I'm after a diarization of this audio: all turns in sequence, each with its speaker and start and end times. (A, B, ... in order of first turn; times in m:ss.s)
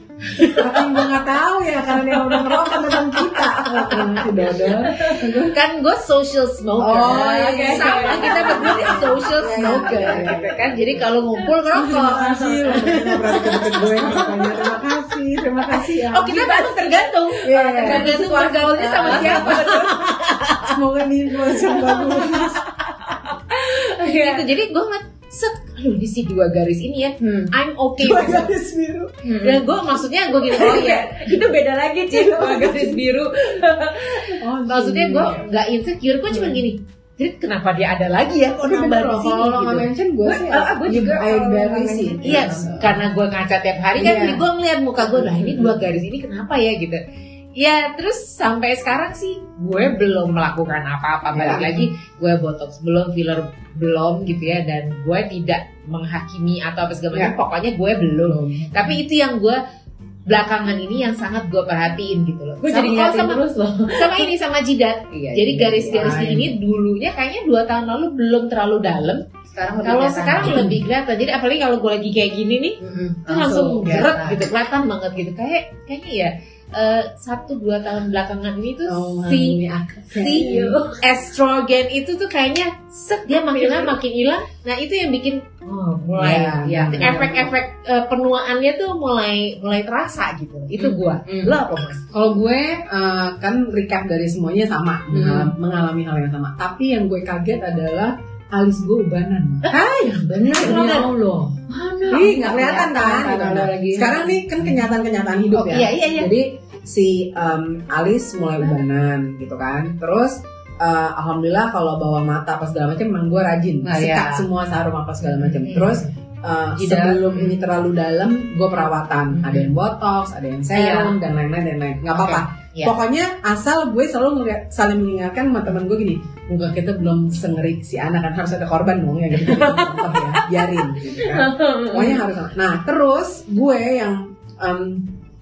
0:00.3-0:01.0 A
0:00.6-0:05.6 B
0:03.9-0:05.1 C
0:03.9-0:13.4 A
0:06.8-0:10.7 B
0:07.0-0:10.5 C
0:11.7-0:16.4 B
0:12.7-0:14.8 C
0:15.7-0:19.8 C
0:16.1-0:20.8 A
0:17.4-0:20.0 B
0:20.7-0:22.6 B
0:21.7-0:24.4 C
0:24.0-0:28.6 A
0:27.2-0:27.5 C
0:28.0-0:29.2 B
0:29.2-0:29.7 C
0:29.4-0:33.3 A
0:30.5-0:34.4 C
0:34.3-0:39.9 A
0:34.4-0:35.5 B
0:38.6-0:43.0 B
0:40.2-0:43.0 C
0:42.2-0:47.0 A
0:44.0-0:44.4 B
0:45.0-0:45.8 C
0:47.6-0:59.6 A
0:51.3-0:51.8 B
0:58.3-0:59.0 B
1:00.3-1:09.2 A
1:02.6-1:04.3 C
1:05.2-1:06.3 C
1:05.9-1:06.5 B
1:09.5-1:10.7 C
1:09.8-1:19.6 A
1:10.4-1:10.8 B
1:12.8-1:14.5 C
1:18.9-1:20.8 B
1:20.2-1:32.1 A
1:20.2-1:21.0 C
1:23.3-1:23.9 C
1:26.2-1:27.5 B
1:26.6-1:27.2 C
1:30.8-1:31.5 C
1:32.1-1:41.1 B
1:35.1-1:35.5 C
1:39.7-1:41.1 C
1:39.7-1:41.5 A
1:41.7-1:44.8 C
1:42.1-2:15.1 B
1:45.5-1:46.3 C
1:53.8-1:54.5 C
1:55.4-1:56.0 C
1:56.8-1:57.6 C
1:59.4-1:59.7 C
2:00.7-2:01.2 C
2:02.2-2:02.9 C
2:09.4-2:10.3 C
2:11.2-2:12.2 C